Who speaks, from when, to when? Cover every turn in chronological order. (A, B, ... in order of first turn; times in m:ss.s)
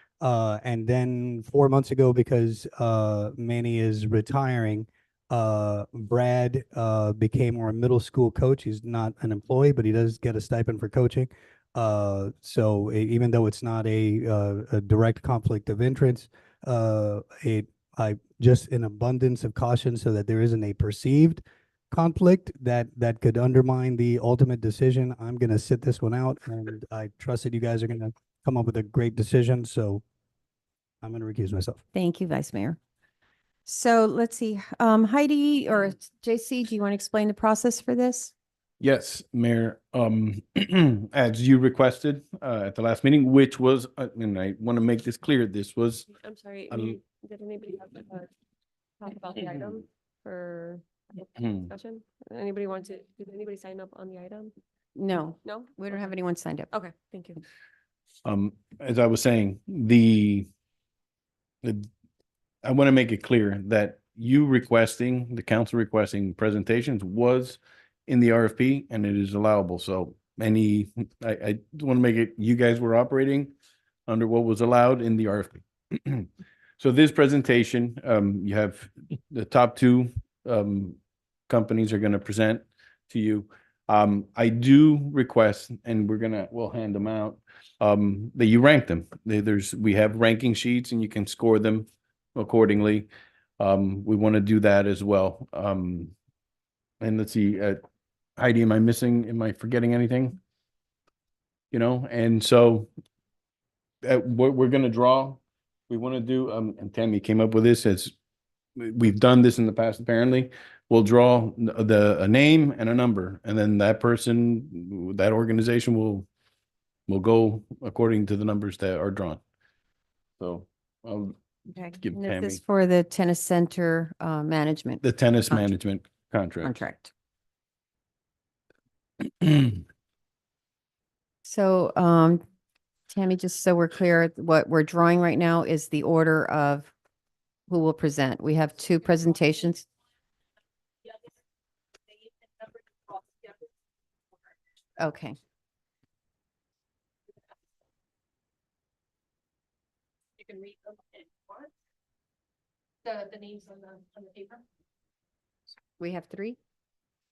0:00.2-0:30.0 A
0:31.0-0:31.8 A
0:31.9-0:32.8 B
0:33.7-0:38.3 B
0:38.8-0:46.1 C
0:46.1-0:48.3 D
0:46.7-0:47.0 C
0:49.0-0:54.6 D
0:51.4-0:51.7 C
0:55.0-0:56.7 B
0:55.4-0:56.1 D
0:56.7-0:57.4 D
0:58.2-1:00.5 C
1:01.6-1:01.9 C
1:02.6-1:13.5 C
1:14.1-1:33.1 C
1:33.6-1:36.1 C
1:37.0-1:37.8 C
1:38.4-1:40.4 C
1:41.7-1:42.9 C
1:44.0-1:48.1 C
1:48.8-1:56.3 C
1:57.1-1:59.4 C
2:00.4-2:01.4 C
2:01.7-2:05.7 B
2:02.0-2:02.6 C
2:05.0-2:06.8 C
2:06.6-2:07.1 B
2:09.3-2:09.8 C
2:11.4-2:12.4 B
2:13.1-2:16.9 B
2:17.7-2:19.8 B
2:25.0-2:25.4 B
2:36.0-2:36.6 B